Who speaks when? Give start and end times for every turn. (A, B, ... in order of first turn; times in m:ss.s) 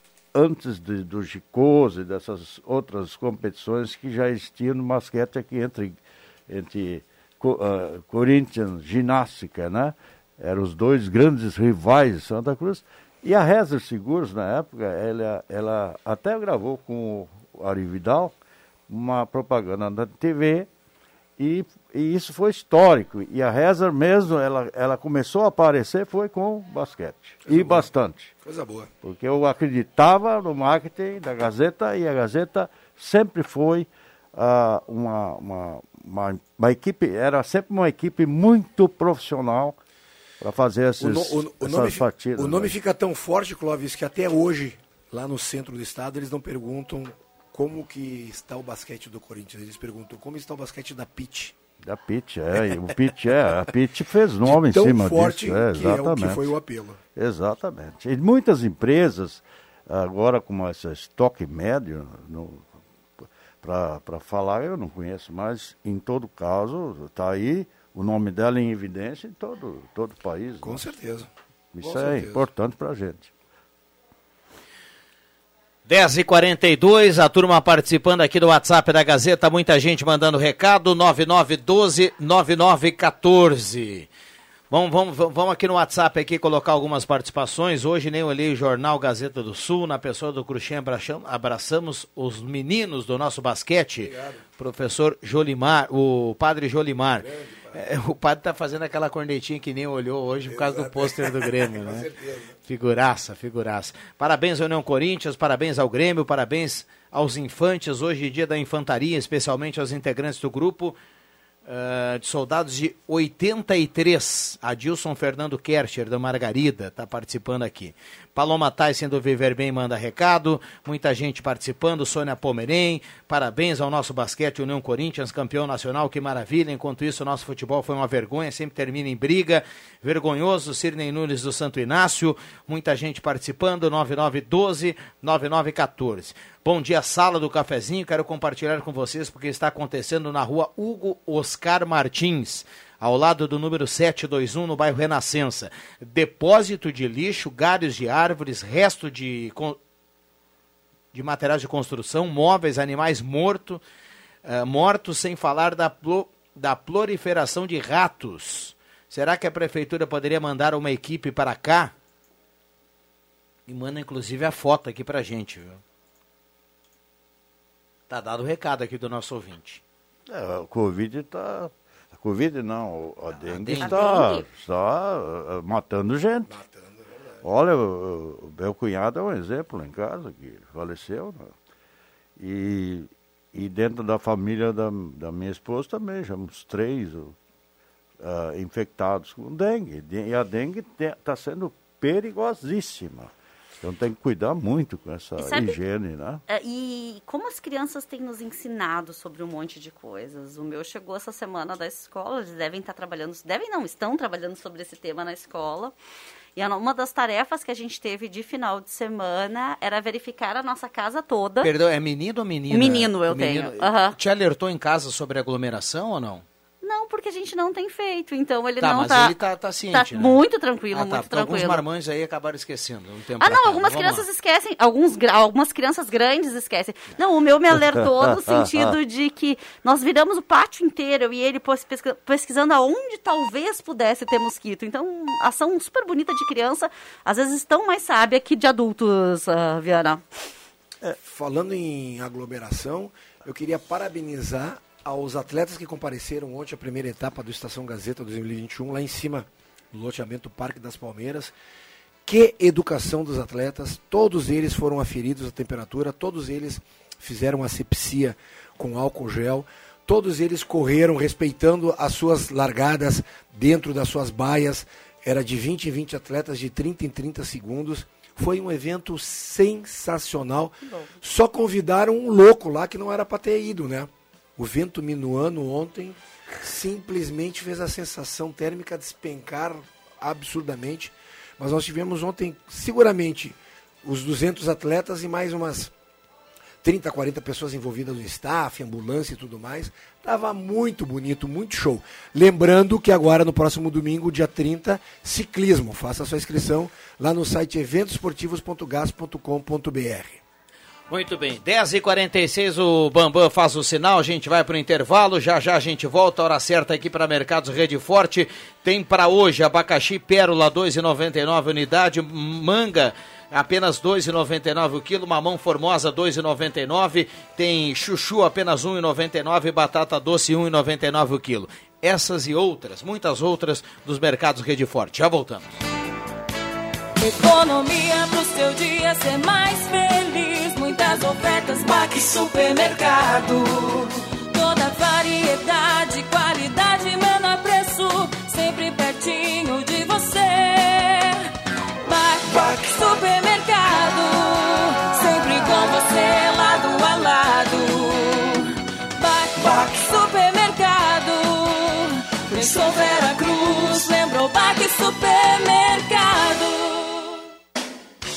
0:00.3-0:18.3 A
0:18.9-0:20.7 A
0:21.4-0:28.3 A
0:27.4-0:27.9 B
0:28.4-0:28.9 B
0:29.0-0:39.8 A
0:40.4-0:42.7 A
0:41.0-0:51.6 B
0:51.8-0:56.5 A
0:54.4-0:57.0 B
0:57.1-1:10.8 A
1:10.6-1:11.3 B
1:11.7-1:13.3 A
1:11.8-1:12.4 B
1:15.8-1:24.1 C
1:24.7-1:42.1 C
1:34.1-1:34.4 B
1:37.2-1:37.7 B
1:40.5-1:42.5 B
1:42.7-1:51.0 C
1:51.7-2:29.8 C
2:31.1-2:33.8 C
2:34.4-2:41.9 C
2:43.7-2:45.8 C
2:48.1-2:49.8 C
2:50.3-2:56.6 A
2:53.5-2:54.0 C
2:53.8-2:54.4 D
2:56.5-2:57.4 B
2:57.4-3:01.5 A
3:02.4-3:07.4 A
3:08.2-3:16.4 A
3:15.4-3:15.8 D
3:16.5-3:25.9 D
3:26.6-3:31.7 D
3:31.6-3:36.4 C
3:32.7-3:34.2 D
3:36.8-3:39.3 D
3:38.8-3:40.4 C
3:39.9-3:41.8 D
3:40.9-3:44.2 C
3:43.4-4:00.2 D
3:47.7-3:49.0 A
4:01.2-4:11.5 B
4:12.2-4:45.9 B
4:30.8-4:31.1 D
4:46.8-5:00.4 B
5:01.1-5:25.8 C
5:27.2-5:41.5 E
5:42.0-5:57.4 E